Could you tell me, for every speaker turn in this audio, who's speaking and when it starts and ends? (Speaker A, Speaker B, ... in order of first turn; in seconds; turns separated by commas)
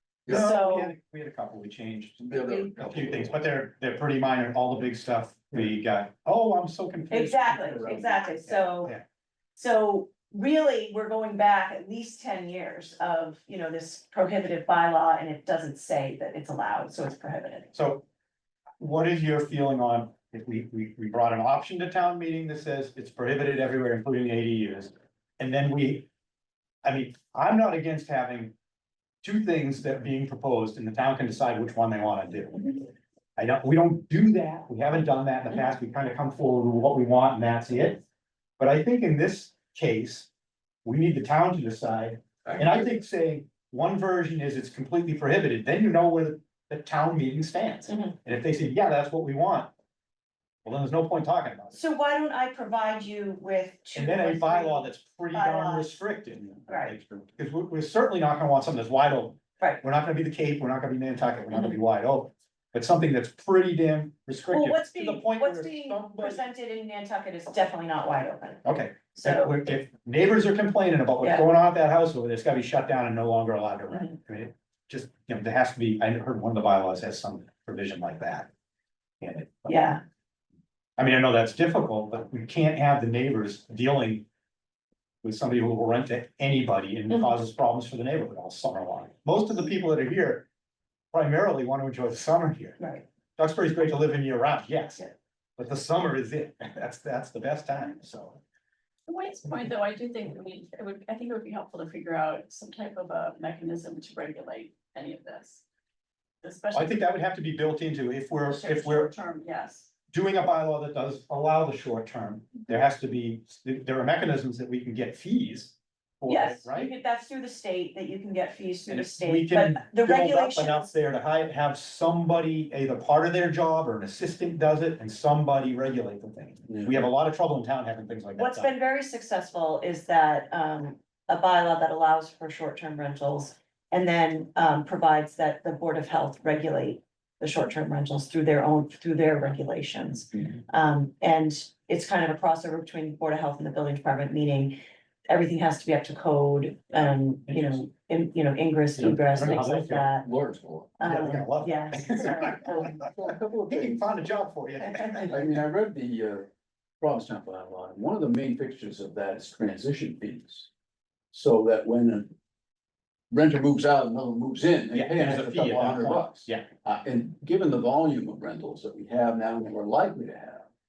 Speaker A: 0.3-0.9, Speaker B: 0.3-9.0, Speaker C: 2.2-3.3, Speaker A: 7.1-8.9, Speaker A: 9.6-17.7, Speaker B: 17.7-18.1, Speaker B: 18.8-26.1, Speaker B: 26.8-28.5, Speaker B: 29.2-32.7, Speaker B: 33.4-38.0, Speaker B: 38.6-40.3, Speaker B: 40.8-49.7, Speaker A: 47.9-48.1, Speaker B: 50.6-51.8, Speaker A: 51.7-56.0, Speaker B: 53.9-66.4, Speaker A: 56.7-56.9, Speaker A: 64.5-69.6, Speaker B: 68.6-78.5, Speaker A: 71.2-71.5, Speaker B: 79.2-79.8, Speaker A: 79.7-80.0, Speaker B: 81.0-84.2, Speaker B: 85.2-90.5, Speaker B: 91.1-92.8, Speaker B: 93.4-95.0, Speaker B: 95.6-98.4, Speaker D: 99.1-105.6, Speaker D: 106.4-107.0, Speaker B: 106.7-109.1, Speaker D: 108.5-109.9, Speaker B: 110.1-116.9, Speaker A: 116.3-120.9, Speaker B: 118.9-128.7, Speaker A: 128.3-144.8, Speaker A: 145.3-150.3, Speaker B: 147.5-147.8, Speaker C: 149.0-150.9, Speaker B: 149.3-150.1, Speaker A: 151.0-153.0, Speaker B: 151.0-153.1, Speaker C: 152.9-154.1, Speaker B: 153.7-155.5, Speaker A: 154.8-155.3, Speaker C: 155.3-156.5, Speaker C: 157.0-160.7, Speaker C: 161.3-162.3, Speaker C: 163.3-170.7, Speaker B: 164.9-166.7